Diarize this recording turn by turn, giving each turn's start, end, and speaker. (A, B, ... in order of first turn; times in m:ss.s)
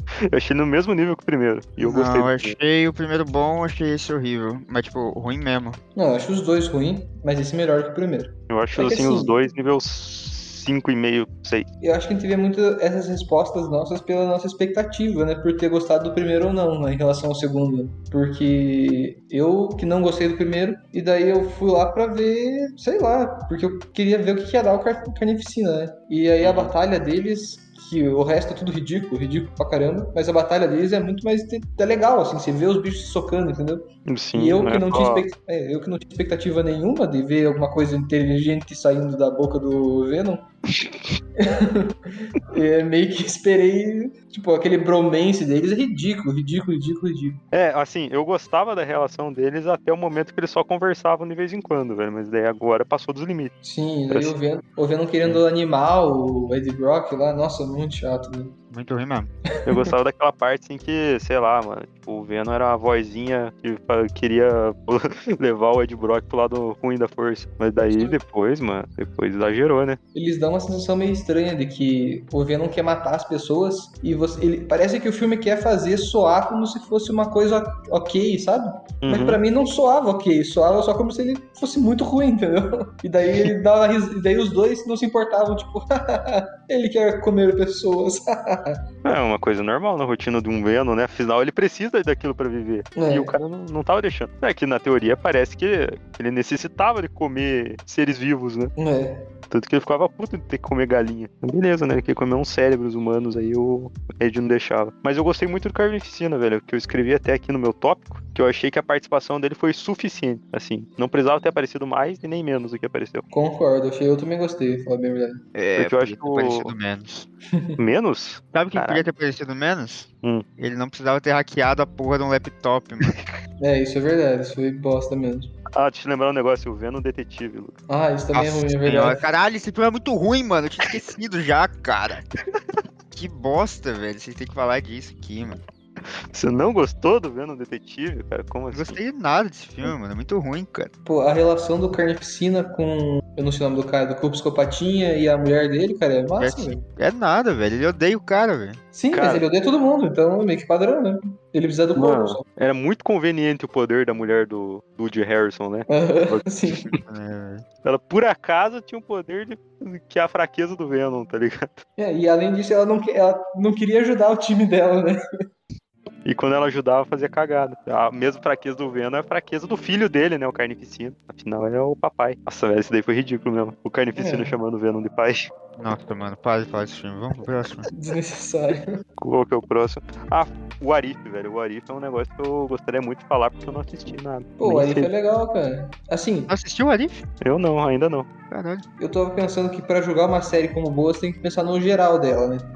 0:00.3-0:02.5 A
0:01.8-0:05.8 B
0:06.0-0:09.4 C
0:08.5-0:11.7 A
0:11.8-0:40.4 C
0:26.4-0:26.7 A
0:34.0-0:35.3 A
0:41.4-0:47.4 C
0:47.5-0:53.6 A
0:53.6-0:58.6 C
0:58.7-0:59.3 B
0:59.6-1:10.0 A
1:07.8-1:08.2 C
1:10.1-1:28.8 C
1:19.0-1:19.4 A
1:29.0-1:38.7 A
1:33.0-1:33.3 C
1:38.8-1:39.2 C
1:39.5-1:53.2 A
1:53.3-1:55.4 C
1:55.5-1:57.3 B
1:55.8-1:56.7 A
1:57.5-1:57.8 C
1:57.8-1:59.0 A
1:58.5-2:03.2 B
2:03.0-2:03.3 A
2:03.6-2:05.5 C
2:05.7-2:07.8 A
2:07.9-2:09.2 C
2:08.3-2:12.2 B
2:13.1-2:15.6 B
2:16.3-2:19.0 A
2:18.7-2:20.9 B
2:21.0-2:26.8 C
2:26.4-2:28.8 B
2:28.9-2:32.4 C
2:29.1-2:29.4 A
2:32.0-2:37.0 A
2:35.9-2:36.9 C
2:37.0-2:37.6 B
2:37.8-2:41.8 A
2:42.0-2:45.2 C
2:46.2-2:55.5 A
2:54.2-2:54.6 C
2:55.8-2:57.9 B
2:57.9-2:59.0 C
2:59.2-3:05.1 A
3:04.6-3:06.5 C
3:06.5-3:07.2 B
3:07.4-3:08.3 A
3:08.5-3:08.8 B
3:09.0-3:12.7 C